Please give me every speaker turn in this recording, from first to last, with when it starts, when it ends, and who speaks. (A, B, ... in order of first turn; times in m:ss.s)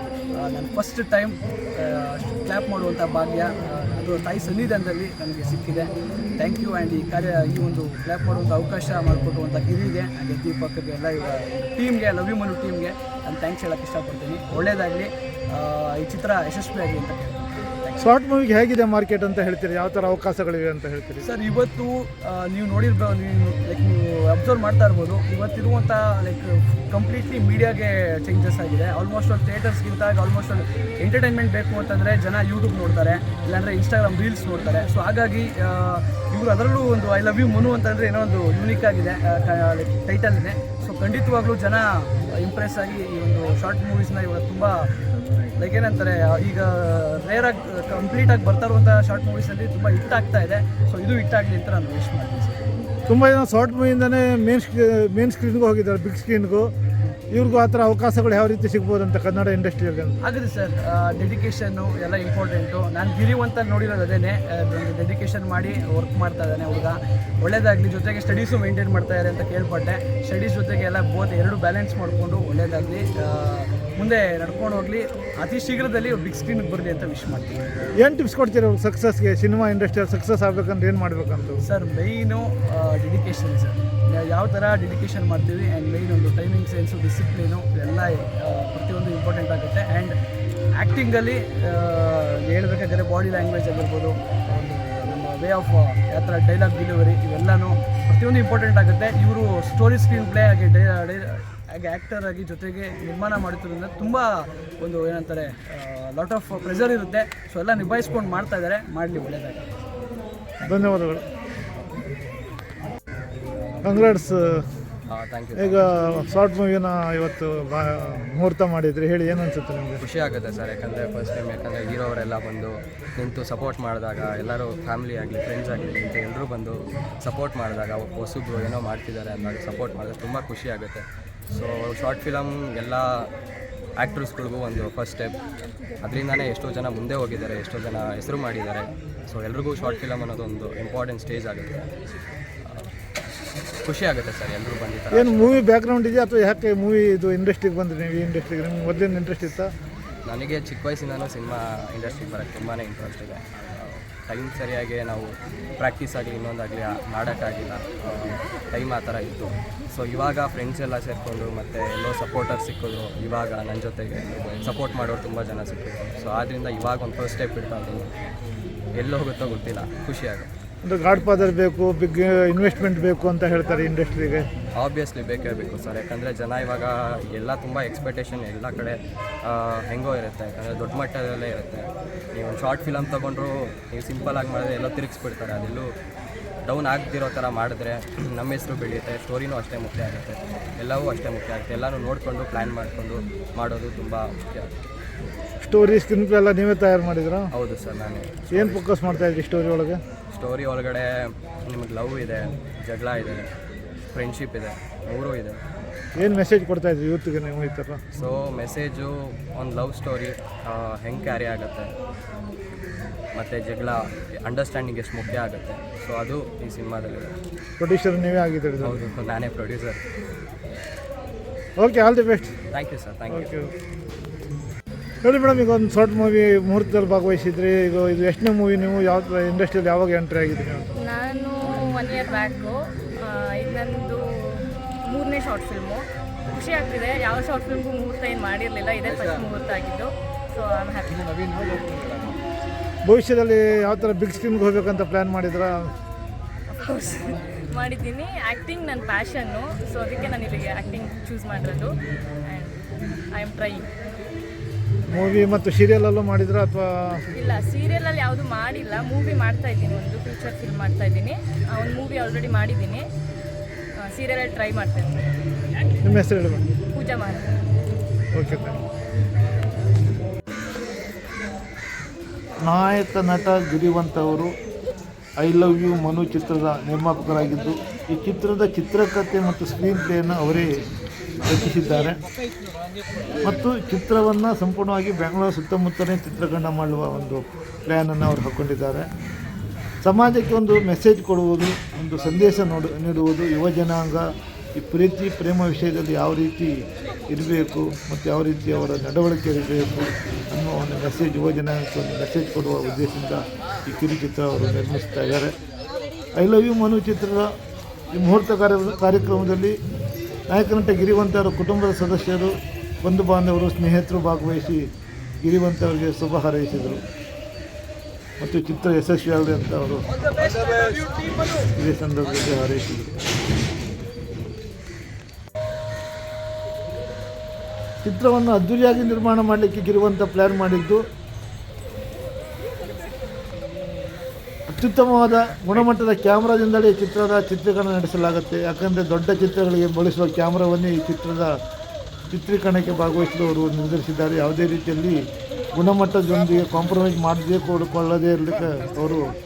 0:00.3-0:18.0 A
0:18.0-0:21.3 B
0:21.2-0:44.9 A
0:45.6-0:52.6 A
0:53.1-0:56.7 B
0:57.3-1:00.2 B
1:00.2-1:17.6 A
1:18.0-1:21.6 B
1:21.6-1:30.2 A
1:30.7-1:49.7 A
1:50.6-1:51.2 B
1:53.8-1:54.6 B
1:55.1-1:55.9 C
1:55.6-2:00.0 B
2:00.0-2:13.3 C
2:14.0-2:15.4 C
2:16.0-2:21.9 C
2:22.6-2:22.9 C
2:23.8-2:25.6 C
2:25.1-2:29.7 B
2:30.2-2:48.1 C
2:48.9-2:50.5 C
2:50.8-2:54.5 B
2:54.8-3:05.9 C
3:06.6-3:14.8 C
3:15.6-3:17.5 B
3:17.5-3:18.9 C
3:18.5-3:20.0 B
3:20.3-3:23.5 C
3:24.1-3:25.6 C
3:26.2-3:28.0 B
3:28.1-3:31.9 C
3:33.3-3:37.4 C
3:37.8-3:39.0 B
3:38.8-3:40.0 C
3:41.8-3:42.5 B
3:42.7-3:43.5 C
3:43.3-3:43.7 B
3:45.2-3:50.9 B
3:50.9-4:01.3 D
4:03.0-4:05.9 B
4:06.7-4:12.8 D
4:13.3-4:13.9 D
4:15.1-4:17.2 B
4:17.3-4:23.1 D
4:24.0-4:25.2 D
4:26.0-4:26.6 B
4:26.9-4:27.5 D
4:28.3-4:28.8 B
4:32.6-4:34.5 B
4:35.4-4:40.7 B
4:41.4-4:42.2 B
4:43.4-4:49.1 B
4:50.0-4:54.2 B
4:54.8-4:56.7 B
4:57.3-5:05.5 B
5:06.3-5:07.5 B
5:08.1-5:09.7 B
5:10.5-5:14.8 B
5:15.4-5:17.0 B
5:18.4-5:20.0 B
5:20.2-5:21.5 A
5:21.7-5:23.2 B
5:28.0-5:31.0 B
5:34.7-5:41.5 B
5:42.3-5:45.2 B
5:45.7-5:49.2 B